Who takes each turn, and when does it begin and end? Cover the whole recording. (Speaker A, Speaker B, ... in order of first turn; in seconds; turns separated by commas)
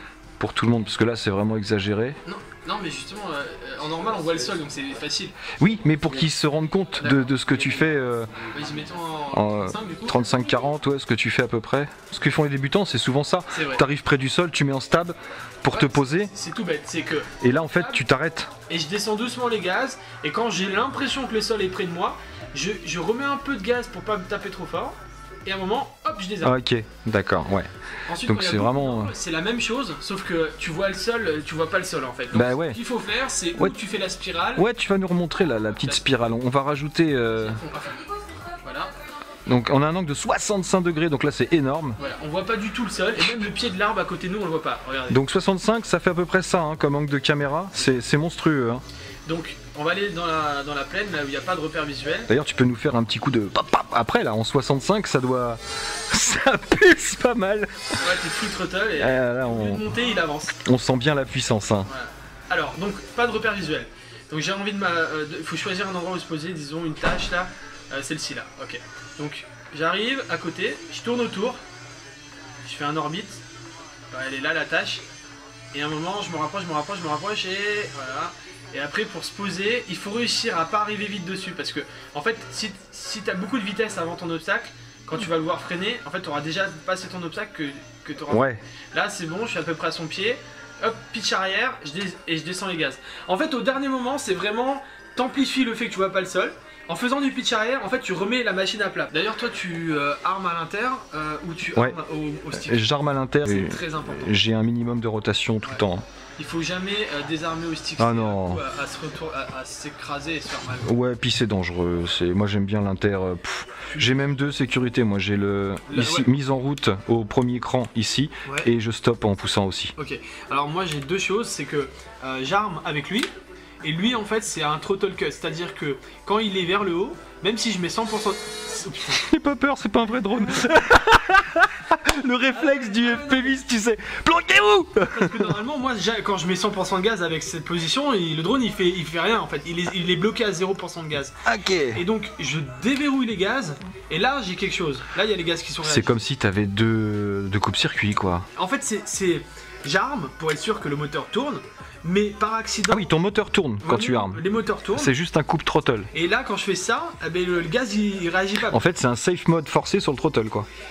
Speaker A: 0.4-2.2, Speaker B: 2.2-5.3, Speaker A: 5.6-8.5, Speaker B: 7.0-10.2, Speaker A: 9.3-16.3, Speaker B: 13.5-13.8, Speaker B: 15.7-18.0, Speaker A: 17.4-18.5, Speaker B: 18.7-26.5, Speaker A: 26.4-27.7, Speaker B: 28.1-34.6, Speaker A: 28.2-29.1, Speaker A: 32.3-32.8, Speaker A: 34.6-37.6, Speaker B: 37.3-38.0, Speaker B: 38.6-38.9, Speaker A: 39.5-42.0, Speaker B: 42.0-45.2, Speaker A: 45.1-48.8, Speaker B: 49.2-52.3, Speaker A: 52.3-58.0, Speaker B: 58.0-60.6, Speaker A: 59.0-59.9, Speaker A: 60.6-61.9, Speaker B: 61.9-71.6, Speaker B: 72.6-73.4, Speaker B: 74.1-75.0, Speaker B: 75.7-102.9, Speaker A: 88.3-88.6, Speaker A: 102.5-106.0, Speaker B: 103.4-104.3, Speaker B: 106.4-110.9, Speaker A: 108.0-108.6, Speaker A: 110.8-119.9, Speaker B: 113.9-114.4, Speaker B: 115.9-116.3, Speaker B: 120.0-123.3, Speaker B: 123.8-129.2, Speaker A: 129.1-135.5, Speaker B: 132.5-133.6, Speaker B: 135.1-141.3, Speaker A: 141.4-142.0, Speaker B: 141.9-146.1, Speaker A: 145.8-148.5, Speaker B: 148.6-153.1, Speaker A: 152.9-154.4, Speaker B: 153.8-155.1, Speaker A: 154.9-156.1, Speaker B: 156.1-158.8, Speaker A: 158.7-160.7